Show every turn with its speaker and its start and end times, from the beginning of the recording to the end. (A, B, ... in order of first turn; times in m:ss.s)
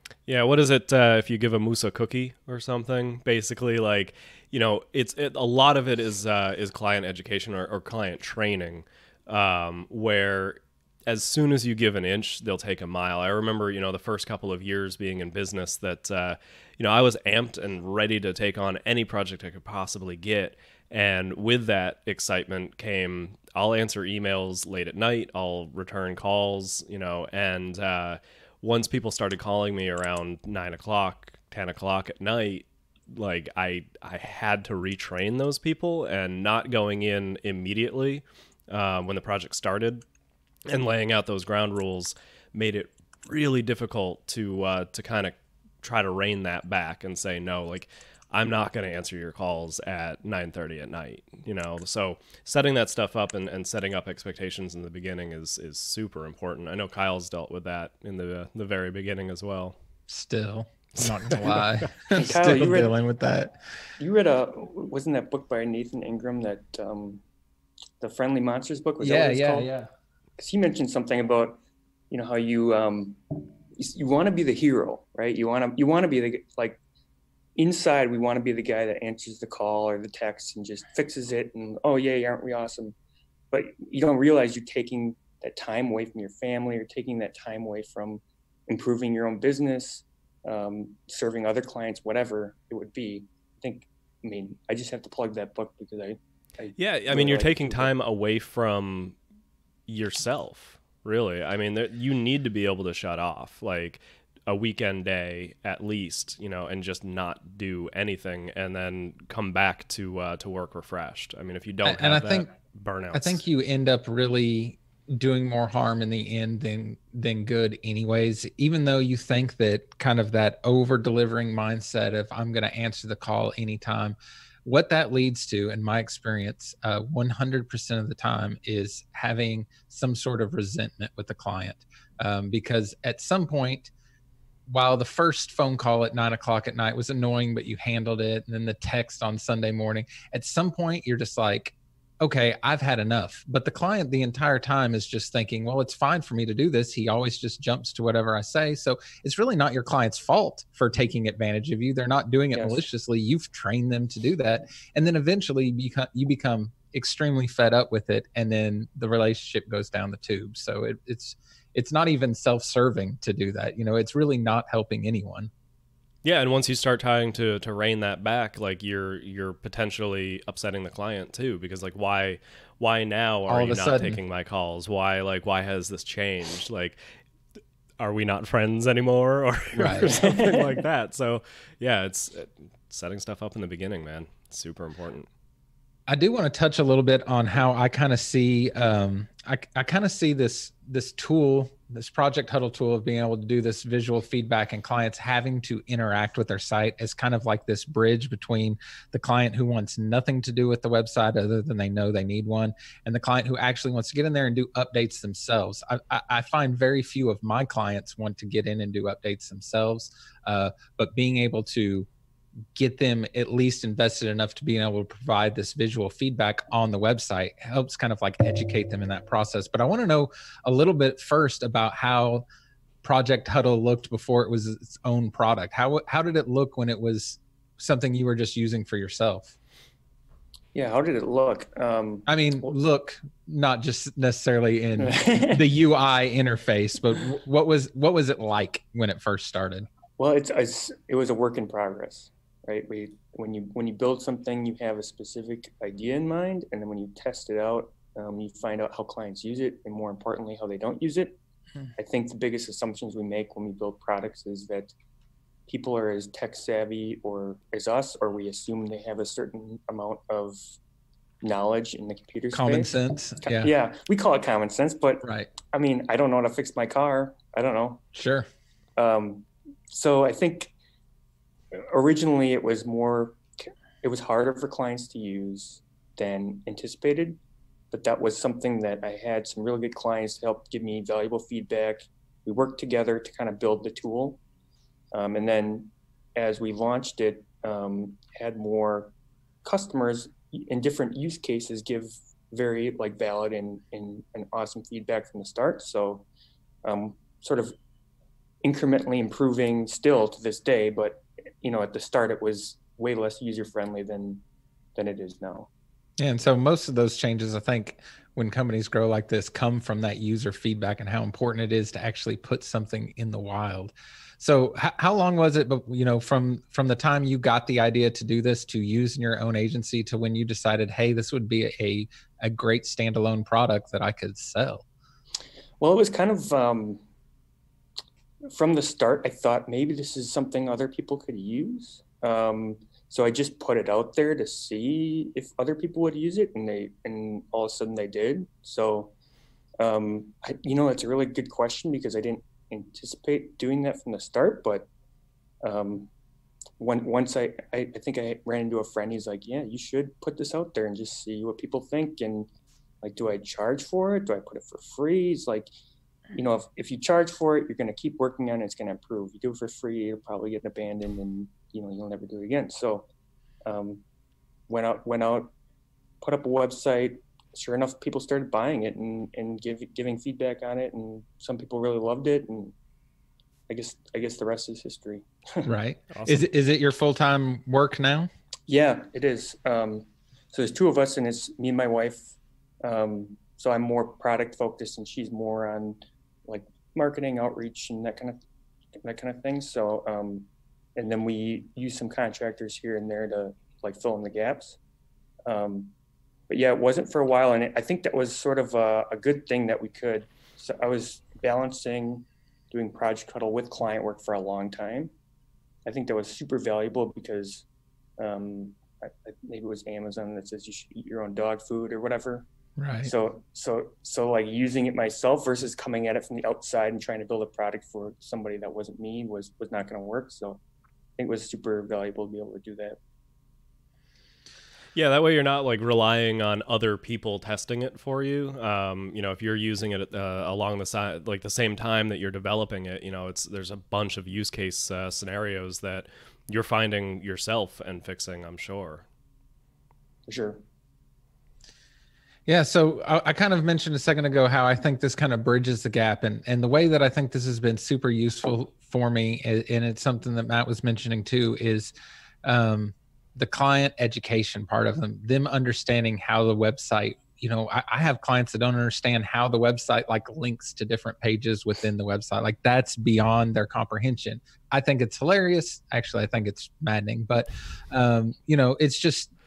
0:00.3-0:40.0 A
0:40.7-0:59.8 A
1:00.1-1:03.6 B
1:01.0-1:01.9 A
1:02.1-1:02.9 C
1:04.0-1:07.2 C
1:08.0-1:09.7 C
1:09.0-1:09.9 B
1:10.4-1:11.6 C
1:12.1-1:13.2 C
1:13.7-1:16.8 C
1:17.6-1:22.9 C
1:23.5-1:37.9 C
1:36.8-1:39.2 A
1:39.9-1:53.4 A
1:51.8-1:52.5 B
1:53.1-2:13.9 B
2:14.7-2:45.5 B
2:32.5-2:32.8 C
2:46.2-2:57.0 A
2:53.5-2:54.2 B
2:58.0-3:05.3 A
2:59.7-3:00.1 B
3:00.0-3:00.8 C
3:06.1-3:32.1 B
3:32.7-3:42.4 B
3:43.0-3:49.5 B
3:50.7-3:52.7 C
3:52.3-3:59.9 B
3:55.0-3:55.6 C
4:00.2-4:11.4 C
4:12.0-4:14.9 C
4:15.7-4:20.8 C
4:21.4-4:22.9 C
4:22.5-4:23.7 B
4:23.4-4:28.0 C
4:25.2-4:25.5 B
4:28.1-4:28.5 B
4:29.0-4:30.7 C
4:31.7-4:37.4 C
4:37.9-4:44.4 C
4:45.1-4:56.3 C
4:56.8-4:57.7 C
4:58.6-5:04.4 C
5:04.9-5:05.7 C
5:06.2-5:24.8 B
5:25.8-5:27.0 C
5:28.5-5:39.1 C
5:39.8-5:44.9 C
5:45.6-5:46.1 C
5:46.8-5:52.5 C
5:53.0-5:55.7 C
5:56.3-6:03.1 C
6:03.6-6:04.0 C
6:04.7-6:05.5 C
6:06.2-6:12.7 C
6:13.7-6:15.7 C
6:15.6-6:18.3 B
6:16.1-6:16.4 A
6:18.7-6:28.4 C
6:29.0-6:34.8 C
6:35.5-6:35.9 C
6:36.5-6:45.1 C
6:45.8-6:47.6 C
6:48.2-6:52.5 C
6:52.8-6:53.1 B
6:53.0-7:00.6 C
7:01.2-7:03.0 C
7:04.9-7:19.0 A
7:20.3-7:20.6 C
7:22.4-7:49.3 B